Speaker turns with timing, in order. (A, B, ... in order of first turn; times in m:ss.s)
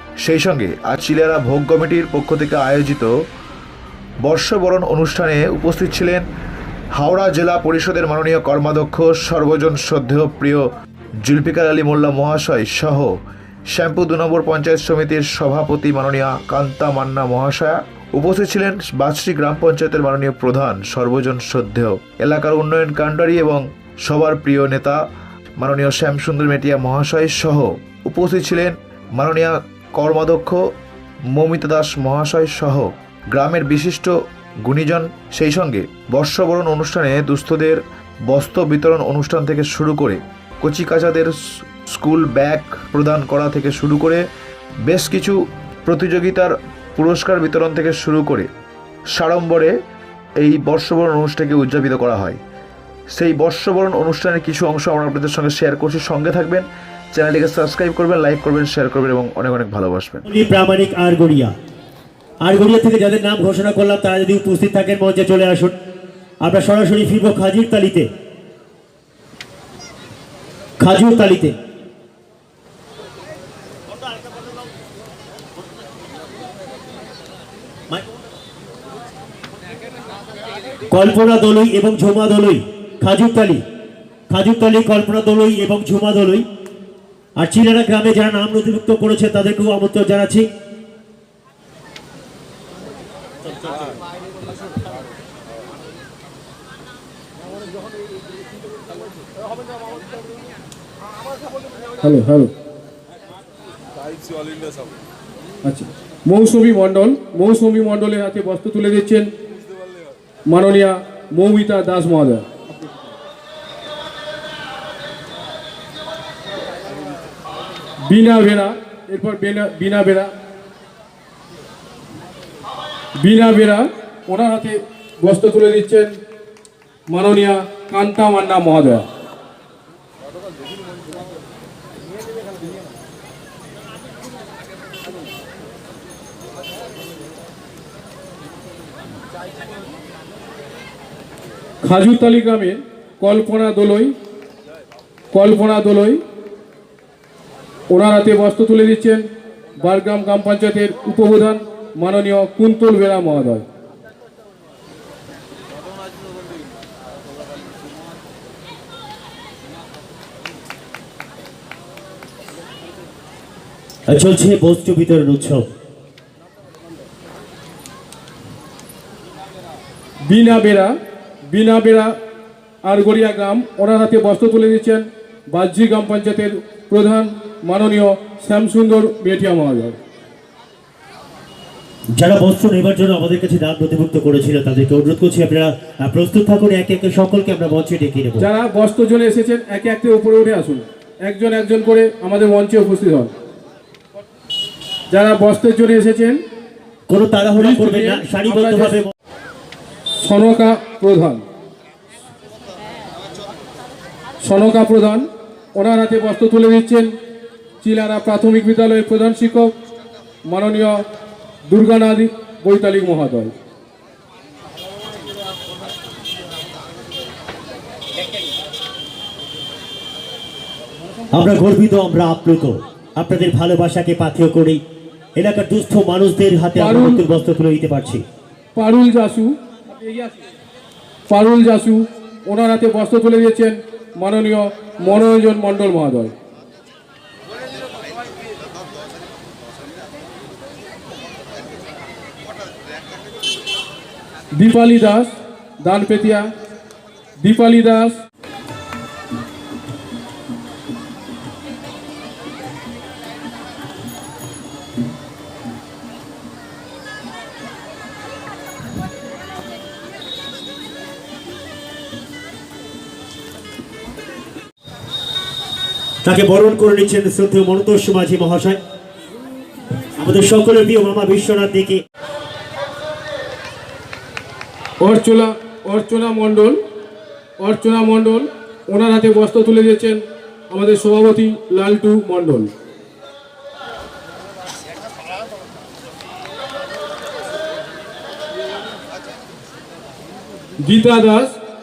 0:00.2-0:03.1 A
0:04.2-0:06.2 A
0:07.0-0:10.6 A
0:11.2-0:13.1 A
0:13.7-0:25.0 A
0:25.6-0:30.6 A
0:31.3-0:34.1 A
0:34.6-0:41.3 A
0:41.9-0:44.2 A
0:44.9-0:48.5 A
0:49.1-0:49.7 A
0:50.4-0:52.4 A
0:53.1-1:00.2 A
1:00.3-1:01.5 B
1:02.4-1:05.8 B
1:06.4-1:08.1 B
1:10.8-1:11.6 B
1:20.9-1:23.6 B
1:24.3-1:26.4 B
1:27.4-1:30.5 B
1:42.0-1:42.5 C
1:45.6-1:49.3 C
1:50.5-1:52.5 C
1:58.0-2:00.3 C
2:03.2-2:06.2 C
2:07.1-2:09.1 C
2:21.8-2:24.1 C
2:25.3-2:26.2 C
2:27.9-2:29.2 C
2:29.8-2:33.6 C
2:44.1-2:45.6 B
2:50.3-2:50.9 C
2:51.5-2:52.1 C
2:52.8-3:00.0 C
3:02.2-3:08.5 B
3:08.4-3:13.3 C
3:15.1-3:16.4 C
3:17.1-3:19.1 B
3:17.5-3:19.0 C
3:20.2-3:21.4 C
3:24.4-3:25.2 C
3:25.8-3:27.1 C
3:27.8-3:29.7 C
3:30.5-3:31.0 C
3:31.7-3:33.5 C
3:41.3-3:44.8 B
3:45.4-3:48.2 B
3:46.8-3:47.2 C
3:48.7-3:50.4 C
3:51.3-3:56.3 C
4:04.6-4:06.5 C
4:07.4-4:08.2 C
4:26.2-4:28.8 B
4:30.2-4:32.0 B
4:35.0-4:36.8 C
4:37.6-4:42.7 C
4:50.8-4:51.6 C